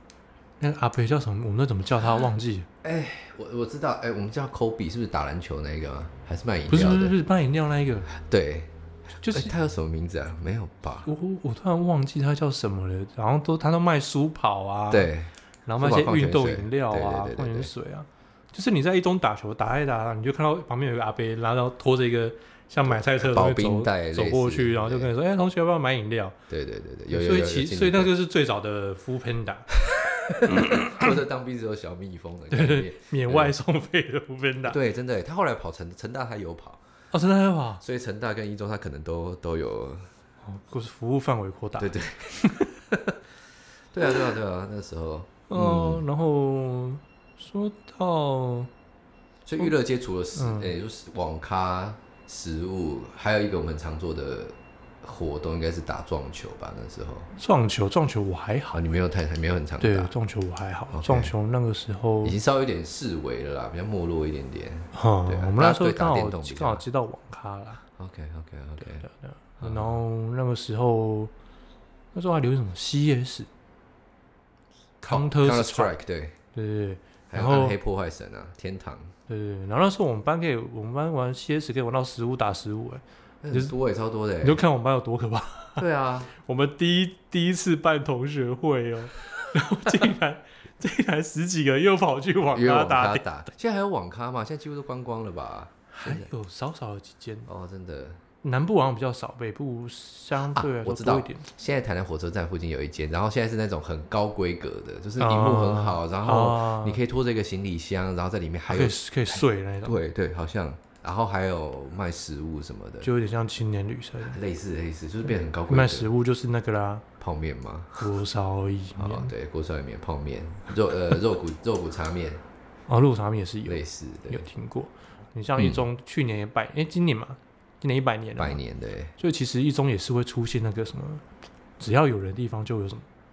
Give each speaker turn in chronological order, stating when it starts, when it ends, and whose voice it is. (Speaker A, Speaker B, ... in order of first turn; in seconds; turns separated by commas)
Speaker A: 0.6-2.7, Speaker B: 2.8-7.1, Speaker A: 6.7-8.1, Speaker B: 8.1-11.1, Speaker A: 9.2-9.5, Speaker A: 11.1-15.1, Speaker B: 14.9-17.7, Speaker A: 15.7-26.4, Speaker B: 22.9-25.1, Speaker B: 26.5-28.1, Speaker A: 27.1-29.6, Speaker B: 29.9-33.5, Speaker A: 30.4-31.1, Speaker A: 32.5-34.8, Speaker B: 34.6-36.8, Speaker A: 37.1-37.8, Speaker B: 37.8-40.1, Speaker A: 40.4-42.7, Speaker B: 41.8-43.2, Speaker B: 43.9-46.0, Speaker A: 45.5-48.7, Speaker B: 49.4-57.3, Speaker A: 50.4-50.7, Speaker A: 57.4-58.8, Speaker B: 58.7-60.1, Speaker A: 59.8-62.4, Speaker B: 60.9-61.3, Speaker B: 62.2-66.8, Speaker A: 64.9-67.8, Speaker B: 68.0-69.1, Speaker A: 68.8-71.3, Speaker B: 69.6-70.0, Speaker A: 72.1-73.5, Speaker A: 75.0-75.9, Speaker B: 75.1-76.4, Speaker A: 76.5-77.8, Speaker B: 77.3-79.1, Speaker A: 79.3-83.7, Speaker B: 83.4-84.6, Speaker A: 84.4-93.2, Speaker B: 85.8-86.3, Speaker B: 92.5-96.3, Speaker A: 95.9-97.5, Speaker B: 97.5-98.2, Speaker A: 98.4-101.5, Speaker B: 100.4-113.1, Speaker A: 105.2-107.0, Speaker A: 108.7-110.0, Speaker A: 113.0-114.4, Speaker B: 114.2-116.1, Speaker A: 115.7-117.0, Speaker B: 117.2-118.0, Speaker A: 118.0-119.3, Speaker B: 119.0-122.4, Speaker A: 122.9-128.6, Speaker B: 123.7-124.5, Speaker B: 125.6-125.8, Speaker B: 128.4-129.1, Speaker A: 129.2-131.2, Speaker A: 131.8-133.1